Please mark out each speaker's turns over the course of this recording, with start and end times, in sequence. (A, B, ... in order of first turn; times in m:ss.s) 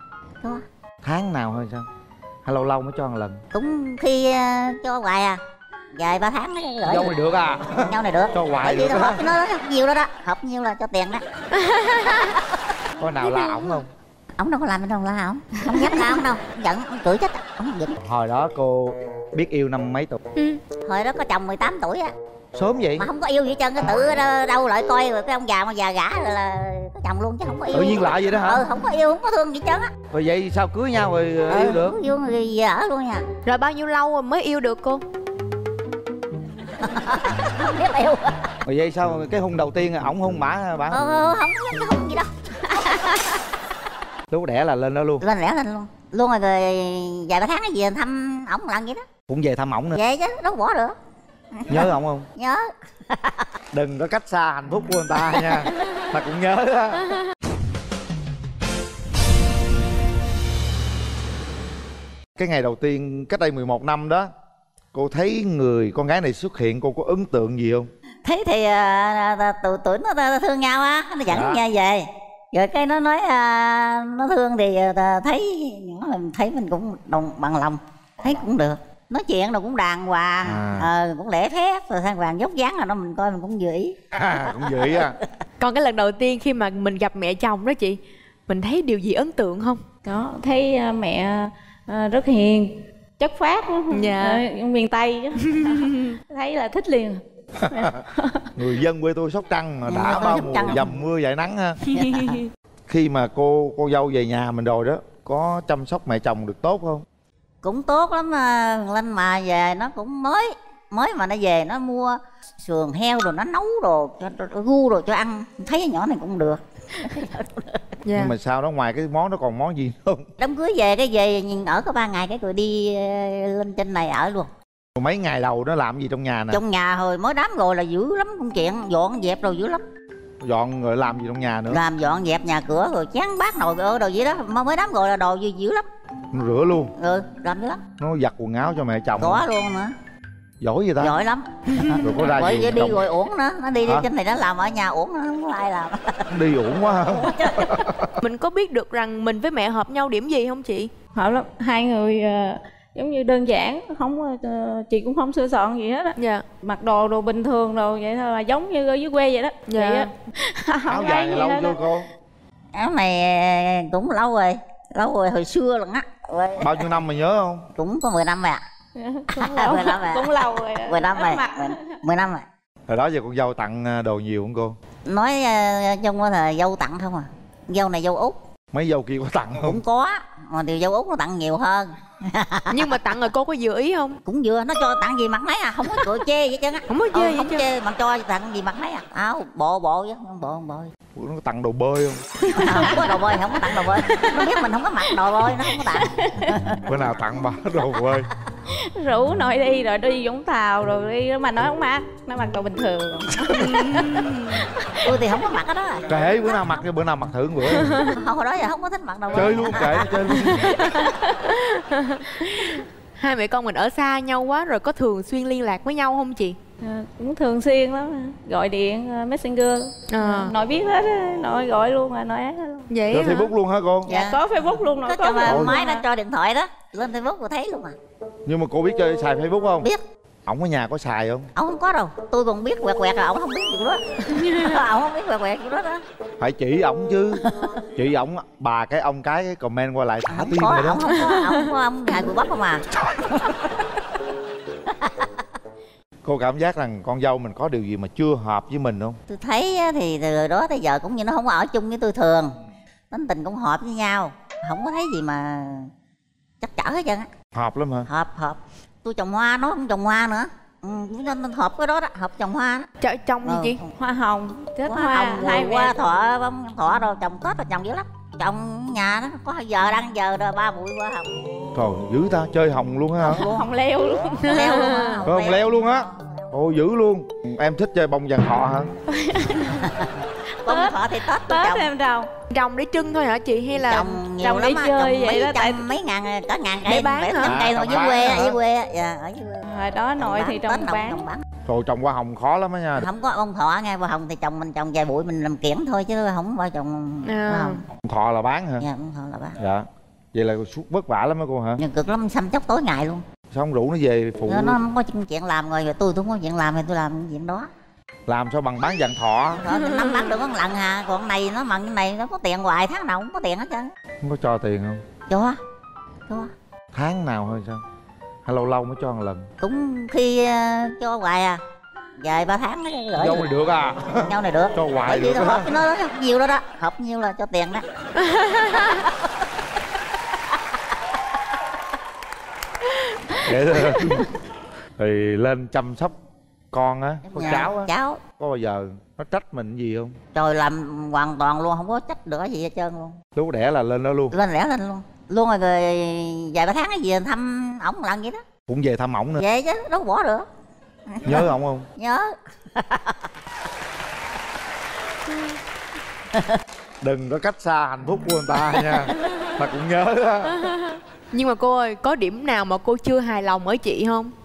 0:01.0-0:01.9 A
0:02.4-0:03.4 A
0:03.5-0:05.4 B
0:06.0-0:07.2 B
0:06.8-0:09.3 A
0:07.8-0:11.2 B
0:11.8-0:12.1 C
0:13.0-0:13.9 A
0:13.2-0:13.8 C
0:14.4-0:18.0 B
0:18.0-0:20.2 A
0:20.9-0:22.1 B
0:22.5-0:23.1 A
0:23.0-0:29.9 B
0:27.7-0:28.6 A
0:30.1-0:32.0 A
0:31.5-0:33.2 B
0:33.4-0:35.0 C
0:36.8-0:38.4 B
0:38.6-0:41.0 A
0:40.9-0:43.4 B
0:44.3-0:45.2 A
0:45.2-0:49.0 B
0:49.3-0:50.0 A
0:49.9-0:51.0 B
0:51.6-0:53.4 B
0:51.7-0:52.3 A
0:53.7-0:57.1 A
0:55.4-0:55.9 B
1:02.4-1:04.3 A
1:04.9-1:07.9 A
1:08.2-1:25.0 B
1:11.3-1:11.6 A
1:20.4-1:20.9 A
1:24.1-1:25.2 A
1:25.6-1:29.8 C
1:30.0-1:38.5 D
1:33.9-1:34.4 C
1:35.4-1:36.1 C
1:37.6-1:37.9 A
1:38.6-1:41.8 A
1:39.9-1:40.9 B
1:41.9-1:42.4 C
1:41.9-1:42.4 B
1:42.9-1:47.0 A
1:47.6-1:57.8 B
1:58.0-1:58.3 C
1:58.1-2:00.2 A
2:00.4-2:04.5 B
2:05.0-2:06.6 A
2:06.5-2:09.8 B
2:10.4-2:11.8 A
2:11.7-2:15.8 B
2:16.3-2:16.9 A
2:17.0-2:17.8 B
2:18.0-2:19.4 A
2:19.2-2:19.9 B
2:20.6-2:21.2 A
2:21.0-2:26.3 B
2:21.9-2:23.0 A
2:23.8-2:24.1 A
2:26.3-2:28.2 A
2:27.1-2:27.8 B
2:28.2-2:30.9 C
2:31.2-2:41.8 D
2:36.2-2:36.4 C
2:39.7-2:40.1 C
2:40.9-2:42.1 A
2:42.8-2:46.9 B
2:46.6-2:47.7 A
2:47.8-2:48.6 B
2:49.0-2:52.0 D
2:49.3-2:52.5 B
2:52.9-2:54.8 A
2:55.1-2:58.4 B
2:58.7-2:59.8 A
2:59.6-3:02.9 B
3:02.7-3:04.2 C
3:04.2-3:10.9 B
3:06.9-3:07.6 C
3:11.2-3:12.2 A
3:12.5-3:13.1 C
3:12.6-3:16.9 B
3:12.8-3:13.2 D
3:14.1-3:14.4 D
3:15.5-3:16.5 D
3:16.8-3:18.3 A
3:18.7-3:25.0 D
3:23.5-3:24.6 C
3:25.0-3:26.1 B
3:26.1-3:28.0 A
3:27.8-3:28.2 C
3:28.0-3:30.3 B
3:29.3-3:30.8 A
3:30.3-3:36.6 C
3:31.0-3:31.4 D
3:32.4-3:32.8 D
3:36.8-3:42.9 D
3:40.1-3:40.5 C
3:42.9-3:43.5 C
3:43.1-3:44.2 A
3:44.1-3:44.4 B
3:44.1-3:46.0 D
3:45.0-3:47.9 B
3:45.4-3:45.8 A
3:48.5-3:49.9 A
3:50.5-3:51.5 A
3:51.5-3:56.0 B
3:56.4-4:01.2 A
3:57.4-3:57.7 B
4:00.3-4:03.7 B
4:01.2-4:01.5 C
4:04.9-4:05.3 B
4:06.2-4:09.2 A
4:09.3-4:12.5 B
4:13.1-4:15.9 B
4:16.6-4:17.3 B
4:17.5-4:18.1 A
4:18.1-4:22.9 B
4:23.0-4:23.8 C
4:23.4-4:23.9 B
4:24.0-4:26.0 D
4:24.9-4:31.3 B
4:31.8-4:33.5 A
4:33.2-4:33.7 B
4:33.4-4:34.5 D
4:34.4-4:35.2 C
4:34.4-4:36.3 B
4:35.3-4:38.9 A
4:39.1-4:39.9 D
4:39.8-4:40.1 B
4:40.6-4:41.9 B
4:40.7-4:42.3 D
4:42.5-4:44.2 C
4:43.8-4:49.7 B
4:44.4-4:45.9 D
4:46.8-4:47.6 C
4:47.4-4:48.6 A
4:49.6-4:51.2 D
4:50.2-4:51.4 B
4:51.6-4:53.1 A
4:53.0-4:57.8 B
4:57.2-4:57.8 C
4:58.0-4:58.9 A
4:58.8-4:59.6 B
4:59.6-5:01.8 A
5:01.8-5:03.2 B
5:03.5-5:04.8 A
5:04.5-5:07.7 B
5:08.3-5:09.6 A
5:09.5-5:13.9 B
5:09.9-5:10.3 C
5:14.2-5:15.0 A
5:15.3-5:15.6 B
5:16.9-5:17.8 A
5:18.5-5:19.5 A
5:19.6-5:21.6 B
5:22.2-5:23.5 B
5:23.2-5:25.8 A
5:24.2-5:27.8 B
5:33.4-5:34.3 A
5:35.0-5:36.1 A
5:36.7-5:40.2 A
5:37.3-5:38.2 B
5:40.4-5:43.2 B
5:43.4-5:44.4 A
5:44.3-5:48.4 B
5:48.7-5:49.4 A
5:49.4-5:50.5 B
5:51.1-5:53.2 B
5:51.2-5:51.9 A
5:57.0-6:00.7 A
5:58.7-5:59.3 B
6:00.5-6:04.3 C